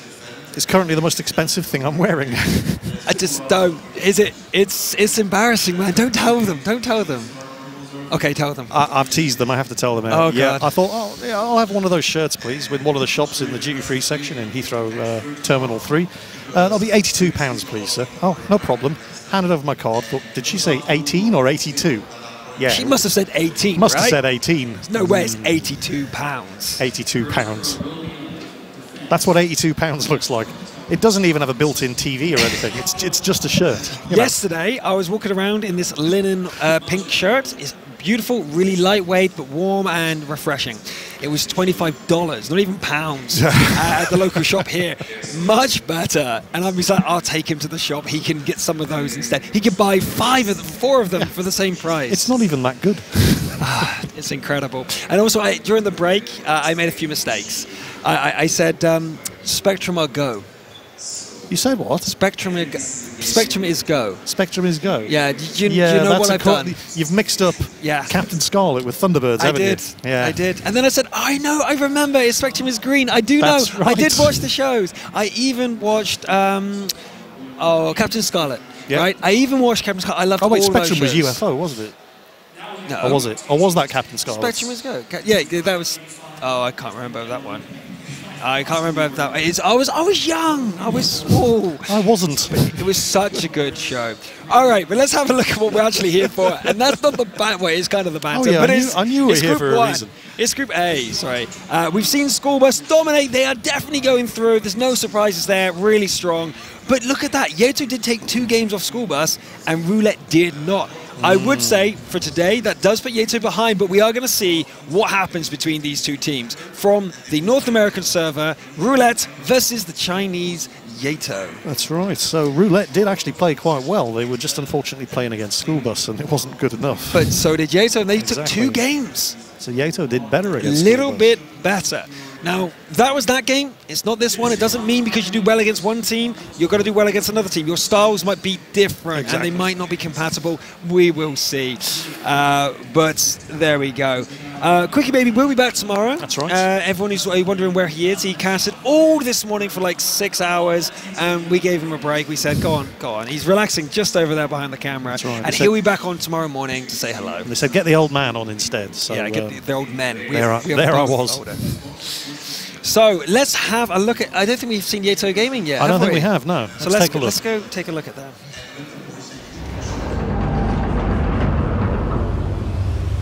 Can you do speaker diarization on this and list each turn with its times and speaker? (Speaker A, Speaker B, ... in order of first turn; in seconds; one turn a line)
Speaker A: 0.5-3.0
Speaker B: 3.0-7.3
Speaker B: 8.1-8.8
Speaker A: 8.7-23.1
Speaker B: 10.1-10.7
Speaker B: 22.7-24.2
Speaker A: 23.7-25.7
Speaker B: 24.9-26.8
Speaker A: 26.8-27.8
Speaker A: 29.1-34.4
Speaker B: 34.0-52.3
Speaker A: 43.3-44.7
Speaker A: 52.1-53.9
Speaker B: 53.6-60.5
Speaker A: 61.5-62.1
Speaker B: 62.0-64.2
Speaker A: 64.2-70.4
Speaker B: 65.0-66.8
Speaker B: 67.8-68.1
Speaker B: 69.4-76.9
Speaker A: 73.4-74.4
Speaker B: 77.6-81.4
Speaker A: 80.4-82.0
Speaker B: 82.8-83.2
Speaker A: 83.0-84.6
Speaker B: 84.3-87.7
Speaker B: 88.4-121.6
Speaker A: 91.8-92.9
Speaker A: 96.4-96.9
Speaker A: 98.3-100.1
Speaker A: 111.2-111.9
Speaker A: 121.6-127.4
Speaker B: 127.1-129.4
Speaker A: 128.2-128.8
Speaker A: 129.6-131.3
Speaker B: 130.6-157.5
Speaker A: 139.1-139.7
Speaker A: 146.2-146.7
Speaker A: 155.1-155.7
Speaker A: 157.4-159.6
Speaker B: 159.1-168.4
Speaker A: 160.3-161.5
Speaker A: 165.8-167.4